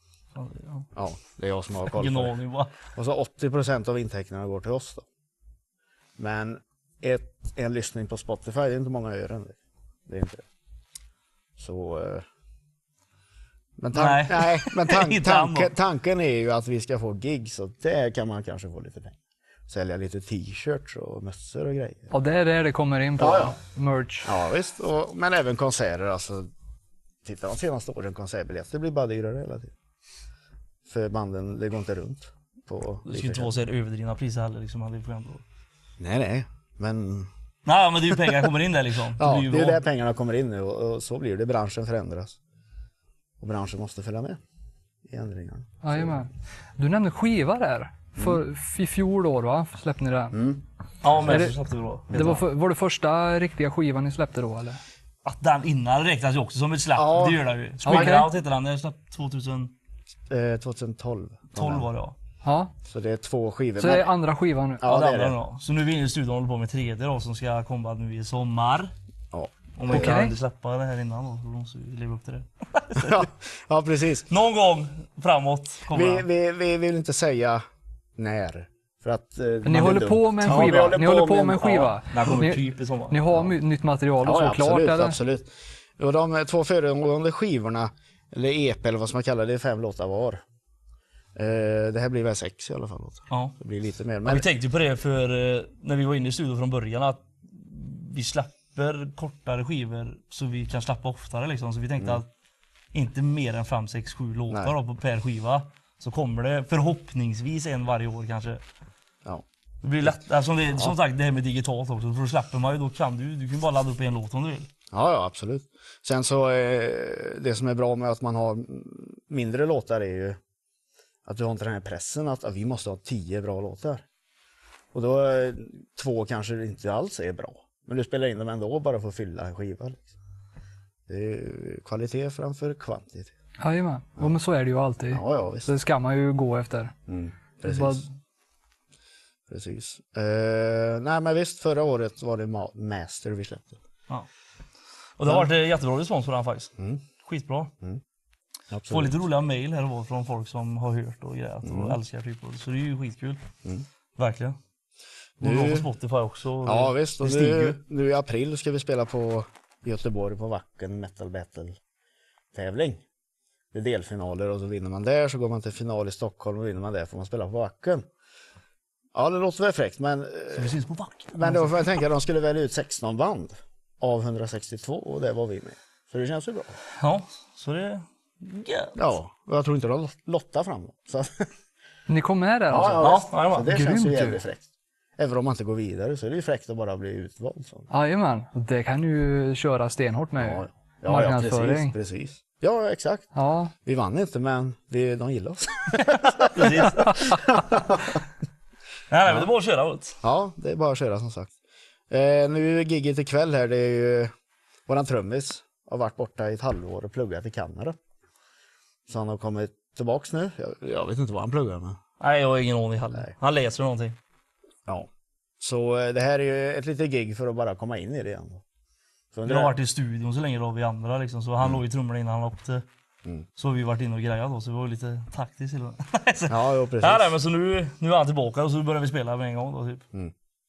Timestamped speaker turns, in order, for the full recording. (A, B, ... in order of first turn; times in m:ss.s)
0:00.4-0:00.9 A
0:01.0-0:02.4 B
0:01.9-0:02.8 A
0:02.9-0:05.1 B
0:06.2-0:10.4 B
0:11.6-0:12.2 B
0:13.8-0:22.1 B
0:13.9-0:15.7 A
0:22.1-0:24.3 C
0:23.2-0:23.6 B
0:24.2-0:26.5 B
0:27.2-0:29.7 B
0:30.9-0:33.6 B
0:33.1-0:35.4 A
0:36.0-0:37.3 B
0:37.7-0:39.8 A
0:39.2-0:42.4 B
0:43.4-0:44.4 B
0:45.1-0:46.3 B
0:45.8-0:50.4 C
0:48.2-0:48.4 B
0:50.3-0:50.6 B
0:51.0-0:52.2 A
0:51.2-0:51.6 C
0:52.1-0:52.5 B
0:52.1-0:54.8 C
0:55.2-0:59.7 A
0:57.0-0:58.2 B
0:57.8-0:58.3 C
1:00.3-1:01.9 B
1:01.5-1:02.2 A
1:02.4-1:02.7 C
1:02.9-1:04.2 B
1:03.8-1:04.8 C
1:04.8-1:05.4 B
1:04.8-1:08.9 A
1:09.3-1:10.2 B
1:09.8-1:13.2 A
1:09.9-1:10.4 C
1:13.0-1:14.3 B
1:14.3-1:16.3 A
1:15.9-1:17.6 B
1:18.2-1:21.9 B
1:19.6-1:25.2 C
1:20.4-1:21.1 A
1:21.8-1:23.2 A
1:23.3-1:23.6 B
1:24.2-1:30.4 B
1:31.4-1:34.5 B
1:33.3-1:33.6 A
1:34.2-1:42.3 A
1:42.9-1:48.6 A
1:44.5-1:44.8 B
1:49.8-1:54.7 A
1:54.9-2:00.4 B
2:01.3-2:04.0 B
2:04.9-2:10.1 B
2:11.1-2:13.3 B
2:13.6-2:16.9 C
2:15.1-2:15.7 B
2:17.1-2:18.1 B
2:17.6-2:18.1 C
2:19.5-2:23.8 B
2:25.2-2:26.7 A
2:27.2-2:27.7 A
2:28.7-2:29.2 B
2:28.9-2:33.4 A
2:31.6-2:32.0 B
2:34.2-2:34.6 A
2:35.4-2:35.9 B
2:35.4-2:37.8 A
2:36.6-2:41.8 B
2:42.5-2:43.0 B
2:43.7-2:48.1 B
2:49.1-2:50.8 B
2:50.5-2:51.8 A
2:51.3-2:56.8 B
2:57.0-2:59.0 A
2:59.0-3:01.4 B
3:02.1-3:04.4 C
3:02.7-3:04.7 B
3:03.0-3:03.7 A
3:05.2-3:07.9 B
3:07.9-3:12.0 C
3:10.4-3:13.3 B
3:13.4-3:13.7 C
3:13.8-3:18.2 B
3:16.5-3:17.4 A
3:19.1-3:20.2 A
3:20.2-3:21.5 B
3:22.1-3:24.3 B
3:24.9-3:28.0 B
3:29.1-3:32.0 B
3:32.2-3:34.2 A
3:35.6-3:38.6 B
3:39.3-3:39.8 B
3:39.5-3:42.9 A
3:43.6-3:50.0 A
3:46.5-3:47.4 B